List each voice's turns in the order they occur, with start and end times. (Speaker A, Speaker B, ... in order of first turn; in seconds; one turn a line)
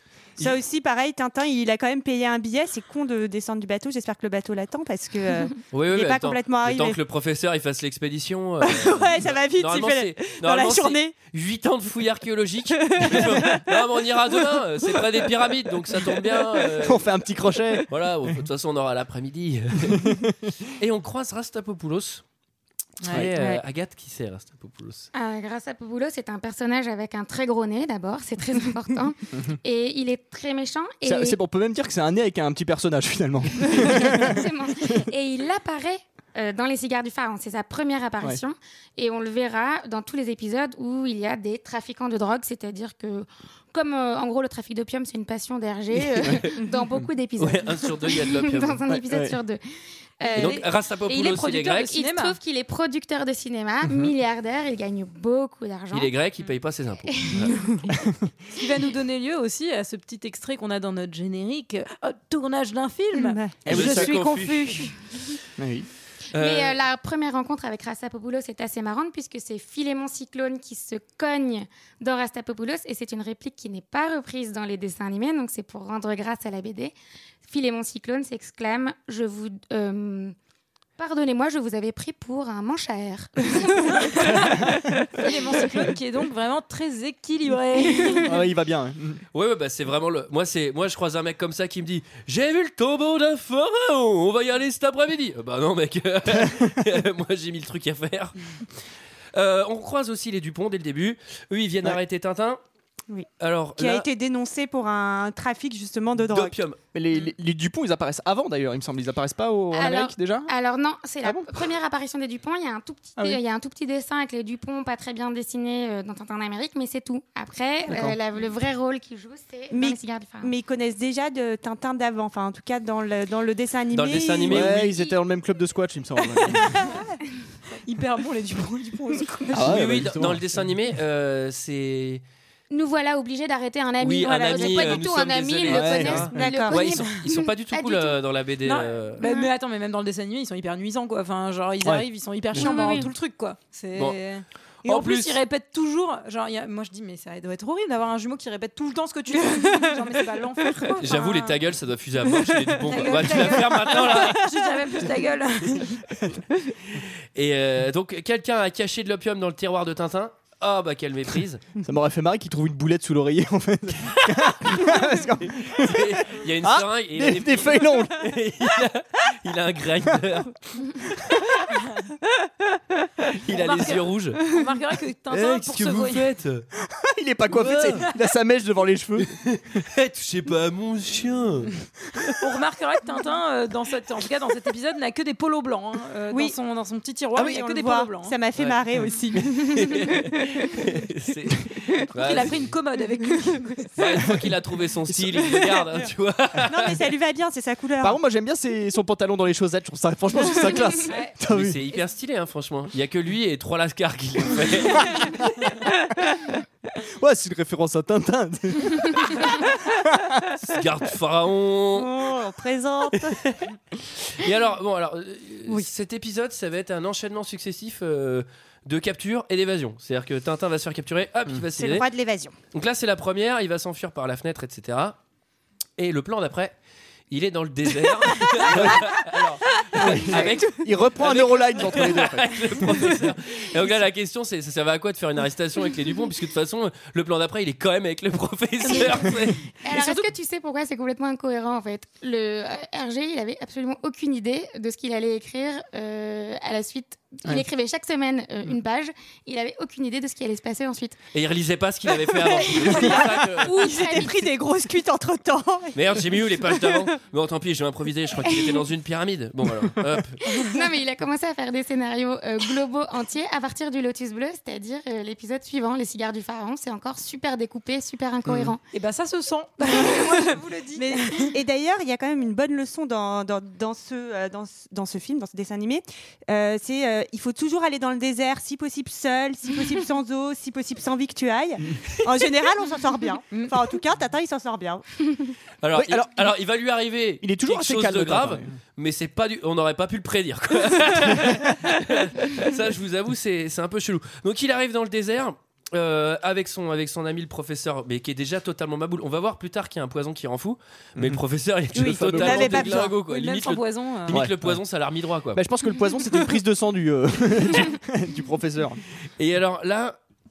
Speaker A: 0.4-7.0
Speaker B: 5.7-17.1
Speaker A: 8.6-11.2
Speaker A: 12.8-13.9
Speaker C: 16.8-18.3
Speaker B: 17.9-20.1
Speaker C: 19.9-20.5
Speaker B: 20.8-22.2
Speaker D: 23.0-23.3
Speaker B: 23.1-25.1
Speaker A: 23.4-23.6
Speaker E: 25.1-31.4
Speaker C: 31.0-34.9
Speaker E: 33.8-49.6
Speaker C: 46.0-46.4
Speaker B: 47.4-48.8
Speaker C: 48.9-49.4
Speaker E: 50.2-56.1
Speaker D: 50.3-50.6
Speaker B: 50.4-52.0
Speaker D: 51.8-52.4
Speaker C: 53.9-54.1
Speaker B: 55.9-57.6
Speaker E: 57.0-57.9
Speaker D: 58.6-64.9
Speaker A: 63.1-63.5
Speaker C: 63.6-64.1
Speaker B: 63.7-64.9
Speaker C: 65.6-65.9
Speaker B: 66.3-66.8
Speaker E: 66.3-76.9
Speaker E: 77.5-80.3
Speaker E: 81.0-84.6
Speaker D: 83.8-88.3
Speaker C: 88.2-89.2
Speaker B: 89.3-98.4
Speaker B: 99.3-102.6
Speaker A: 103.1-106.6
Speaker B: 103.4-104.1
Speaker B: 106.3-106.8
Speaker C: 106.9-110.5
Speaker E: 109.7-120.5
Speaker C: 111.2-111.5
Speaker C: 117.9-118.2
Speaker A: 119.7-125.0
Speaker B: 123.9-124.8
Speaker C: 124.5-126.8
Speaker D: 126.4-126.8
Speaker A: 126.8-127.2
Speaker D: 127.8-129.8
Speaker C: 129.5-130.6
Speaker B: 129.6-132.2
Speaker E: 132.7-138.2
Speaker B: 134.0-139.3
Speaker A: 134.3-135.0
Speaker C: 135.7-136.3
Speaker A: 136.3-136.8
Speaker D: 138.7-151.6
Speaker E: 139.2-139.5
Speaker E: 142.5-143.1
Speaker B: 142.6-142.9
Speaker B: 144.8-145.4
Speaker B: 151.0-154.5
Speaker D: 152.3-156.0
Speaker B: 156.9-161.6
Speaker C: 161.8-168.3
Speaker B: 165.5-170.6
Speaker B: 173.4-174.4
Speaker D: 173.5-176.3
Speaker B: 175.3-176.7
Speaker C: 176.8-179.4
Speaker B: 177.5-178.1
Speaker B: 179.3-181.7
Speaker D: 182.4-188.4
Speaker A: 187.3-190.1
Speaker B: 189.6-192.7
Speaker D: 192.1-194.0
Speaker B: 194.0-197.0
Speaker C: 195.1-195.5
Speaker A: 196.6-198.2
Speaker C: 198.0-201.8
Speaker B: 201.5-205.4
Speaker C: 207.0-210.4
Speaker B: 210.6-212.1
Speaker A: 211.9-213.4
Speaker B: 213.4-222.1
Speaker A: 221.8-222.6
Speaker B: 222.7-225.2
Speaker B: 226.0-226.8
Speaker B: 227.3-239.6
Speaker C: 230.0-232.9
Speaker E: 238.9-251.2
Speaker D: 239.9-240.2
Speaker B: 251.3-253.9
Speaker E: 252.8-254.5
Speaker A: 253.0-257.1
Speaker B: 255.9-260.4
Speaker E: 258.5-258.8
Speaker E: 260.5-268.8
Speaker C: 268.5-268.7
Speaker D: 268.9-271.5
Speaker A: 270.0-285.1
Speaker B: 285.8-305.6
Speaker C: 285.9-286.5
Speaker C: 287.4-288.8
Speaker A: 302.0-303.2
Speaker C: 302.0-303.0
Speaker D: 302.6-304.4
Speaker C: 304.3-304.9
Speaker C: 305.5-309.0
Speaker B: 309.4-310.2